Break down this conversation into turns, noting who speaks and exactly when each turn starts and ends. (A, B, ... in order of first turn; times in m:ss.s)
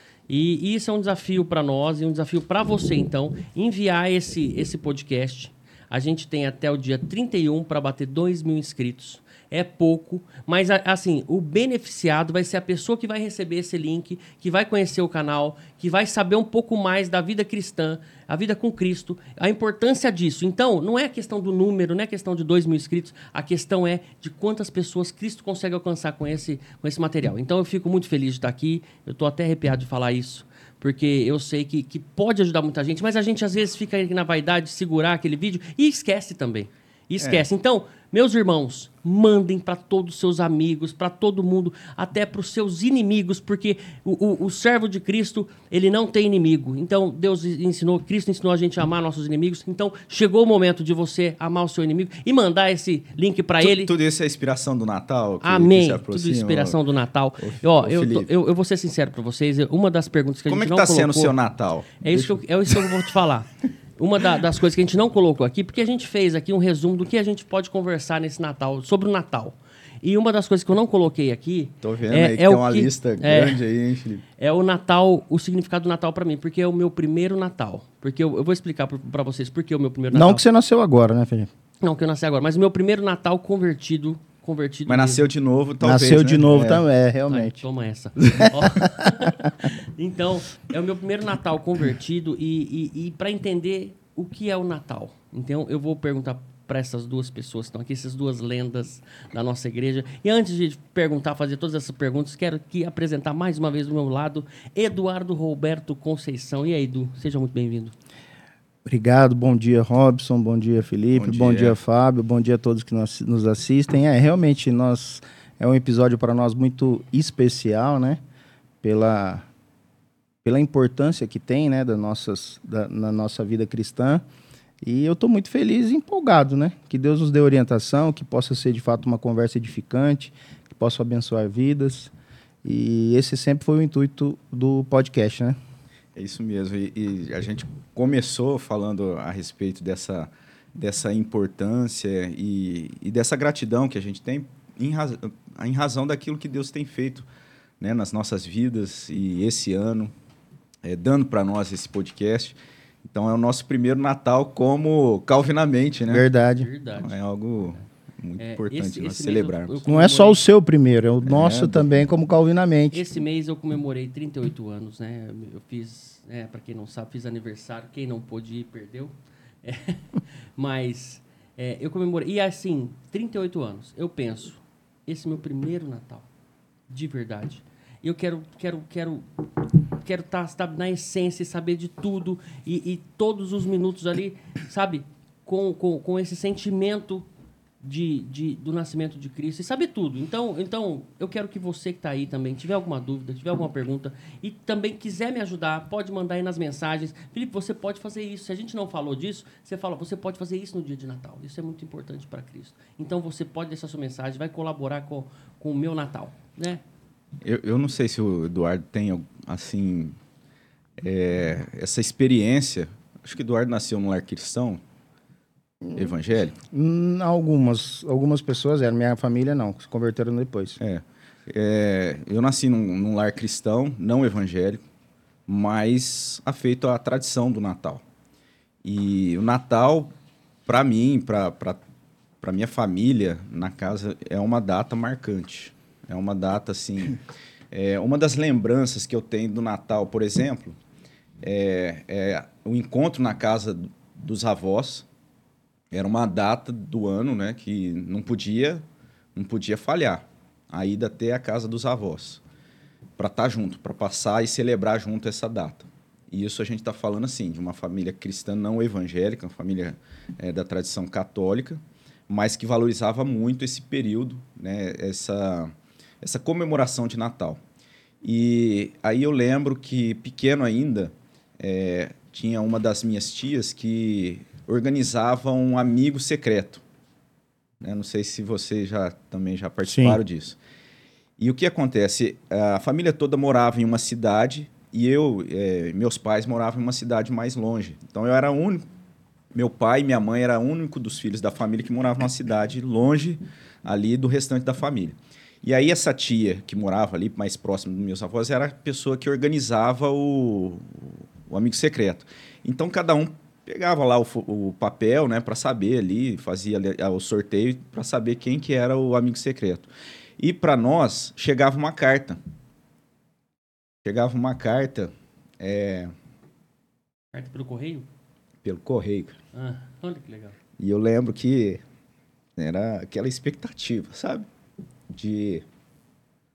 0:00.3-0:53.9 A
0:37.2-0:37.4 B
0:53.6-0:56.8 B
0:55.4-1:01.3 A
0:57.4-0:58.3 B
1:00.5-1:03.0 B
1:02.0-1:13.6 A
1:11.8-1:14.2 B
1:14.4-1:20.4 A
1:20.1-1:21.5 C
1:21.8-1:25.3 A
1:24.9-1:26.8 B
1:25.8-1:27.6 C
1:27.3-1:47.9 A
1:28.2-1:28.5 B
1:48.8-1:58.2 C
1:51.1-1:51.8 B
1:58.8-1:59.5 C
2:00.4-2:04.2 C
2:04.8-2:12.1 C
2:12.6-2:15.6 C
2:16.2-2:27.2 B
2:27.8-2:30.1 B
2:30.8-2:36.2 B
2:36.1-2:36.7 C
2:36.4-2:37.2 A
2:37.0-2:39.8 B
2:38.4-2:40.4 A
2:39.8-2:43.0 C
2:41.2-2:42.0 B
2:42.9-2:49.1 A
2:49.6-2:56.3 A
2:56.9-3:07.3 A
3:07.8-3:26.8 A
3:27.4-3:30.2 B
3:31.0-3:34.8 B
3:35.8-3:36.1 C
3:35.9-3:36.6 B
3:36.7-3:40.8 C
3:40.8-3:44.8 B
3:45.5-3:48.0 B
3:48.8-3:50.1 B
3:50.6-3:51.8 B
3:52.4-3:57.2 B
3:57.7-4:00.7 B
4:01.4-4:05.0 B
4:05.9-4:08.8 B
4:09.3-4:12.4 B
4:13.2-4:27.6 B
4:28.2-4:36.8 B
4:37.8-4:40.6 B
4:39.8-4:40.2 C
4:41.4-4:48.8 B
4:49.5-5:12.4 B
5:14.0-5:16.1 B
5:17.3-5:18.1 A
5:18.6-5:19.4 B
5:19.5-5:20.6 A
5:20.8-5:21.8 B
5:22.6-5:24.5 B
5:25.1-5:25.6 B